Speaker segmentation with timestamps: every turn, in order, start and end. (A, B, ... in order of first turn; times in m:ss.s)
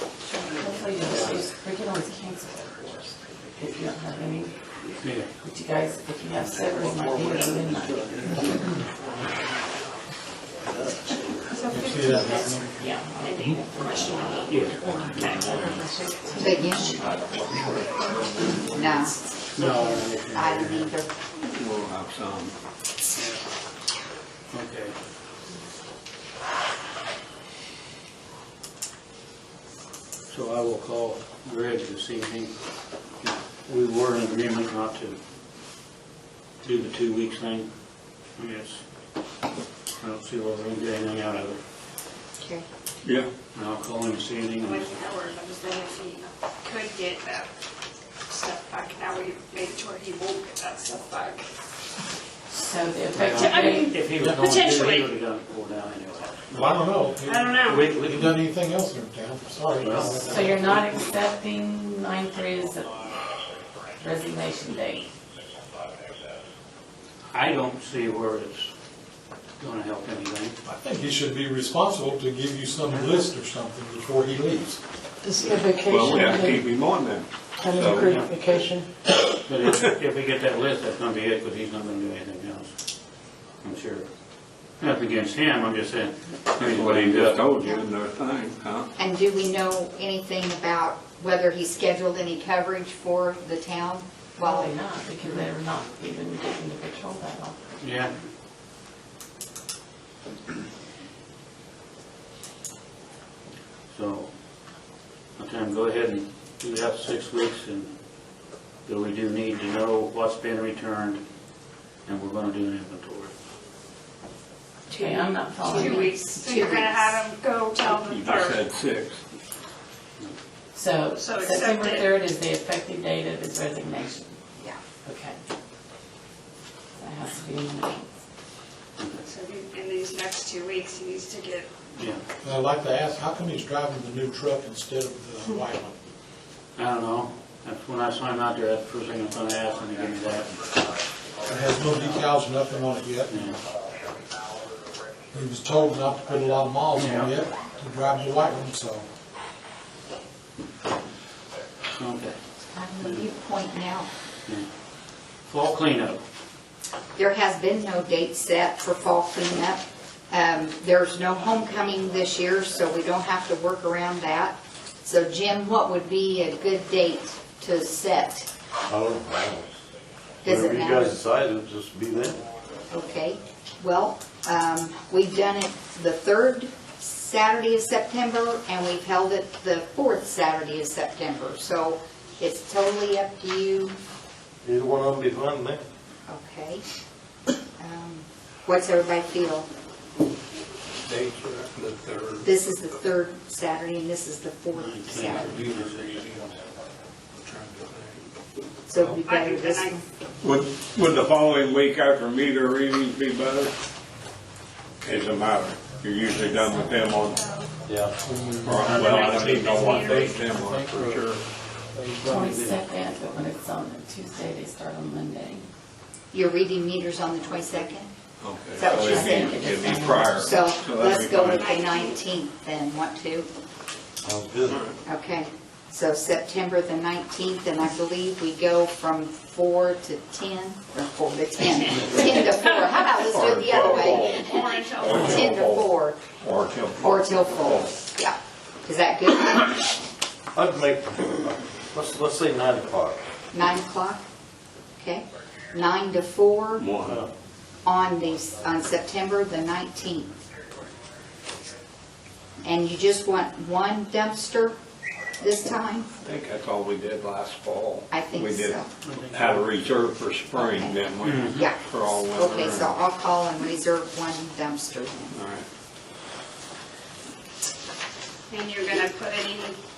0:00.3-0:04.6 A
0:05.0-0:05.3 B
0:05.3-0:08.8 A
0:07.0-0:08.5 C
0:11.5-0:12.7 D
0:11.7-0:12.9 E
0:12.2-0:17.6 A
0:13.2-0:16.1 D
0:14.5-0:15.0 B
0:16.4-0:17.0 F
0:17.0-0:19.0 G
0:18.0-0:18.3 D
0:18.6-0:21.1 F
0:19.5-0:21.0 B
0:21.3-0:22.6 G
0:23.2-0:23.4 B
0:24.5-0:25.0 B
0:30.3-0:32.5 B
0:33.2-0:35.2 B
0:36.6-0:37.7 B
0:38.4-0:38.8 B
0:40.0-0:41.6 B
0:42.4-0:42.7 F
0:43.0-0:43.3 G
0:43.6-0:44.9 B
0:44.6-0:47.5 D
0:48.3-0:51.5 D
0:52.5-0:54.0 A
0:53.1-0:56.8 B
0:53.4-0:55.1 D
0:56.5-1:00.8 E
0:57.2-0:57.9 D
0:57.6-0:58.4 B
0:59.8-1:00.8 B
1:00.2-1:03.1 A
1:04.0-1:05.1 A
1:07.3-1:08.7 B
1:09.6-1:10.6 B
1:10.6-1:14.8 E
1:15.2-1:16.7 H
1:15.9-1:18.2 G
1:17.6-1:18.9 H
1:17.9-1:18.7 B
1:19.3-1:22.7 B
1:23.6-1:24.1 B
1:24.8-1:27.6 B
1:26.6-1:28.9 G
1:29.0-1:34.8 F
1:34.4-1:37.8 A
1:37.8-1:38.1 B
1:43.9-1:44.3 B
1:45.4-1:47.9 B
1:48.8-1:51.2 B
1:52.0-1:53.3 B
1:54.9-1:57.2 F
1:54.9-1:56.9 A
1:55.6-1:58.6 D
1:57.8-1:59.2 G
2:00.7-2:04.4 A
2:01.1-2:02.1 D
2:05.0-2:05.4 A
2:07.0-2:08.1 A
2:09.2-2:12.0 D
2:12.0-2:12.2 B
2:12.4-2:16.0 E
2:16.8-2:20.6 B
2:21.4-2:23.6 E
2:23.3-2:23.6 B
2:25.3-2:29.1 E
2:27.0-2:27.3 B
2:31.9-2:32.4 B
2:32.7-2:34.1 F
2:35.5-2:36.2 B
2:37.2-2:48.5 F
2:48.9-2:49.7 C
2:50.4-2:51.2 F
2:50.4-2:52.4 C
2:52.9-3:04.0 F
3:04.6-3:05.8 C
3:06.3-3:06.8 F
3:07.8-3:09.7 F
3:11.0-3:12.5 G
3:12.4-3:15.6 F
3:14.7-3:16.5 B
3:15.4-3:16.6 G
3:17.4-3:18.2 G
3:18.9-3:20.0 F
3:19.1-3:20.0 D
3:20.4-3:23.8 G
3:25.0-3:27.4 G
3:26.4-3:27.7 D
3:27.9-3:28.2 C
3:28.2-3:31.3 E
3:28.6-3:31.4 G
3:28.9-3:30.4 D
3:31.9-3:32.5 E
3:32.2-3:32.8 B
3:32.2-3:35.7 A
3:36.3-3:38.1 F
3:38.4-3:41.7 G
3:38.7-3:39.6 F
3:38.9-3:40.8 A
3:40.3-3:43.5 F
3:41.3-3:42.2 D
3:44.2-3:44.9 C
3:44.7-3:45.0 G
3:45.0-3:56.2 F
3:52.0-3:52.5 G
3:53.2-3:58.0 G
3:53.9-3:55.4 D
3:57.0-3:59.8 F
4:00.5-4:03.2 C
4:03.5-4:04.2 F
4:05.0-4:06.9 F
4:06.8-4:07.2 G
4:07.0-4:07.3 C
4:07.8-4:10.3 F
4:12.6-4:14.8 F
4:15.4-4:16.1 F
4:16.2-4:23.0 G
4:18.1-4:18.9 F
4:19.0-4:19.7 B
4:20.5-4:25.3 F
4:21.2-4:21.7 B
4:25.3-4:25.7 G
4:28.5-4:29.8 D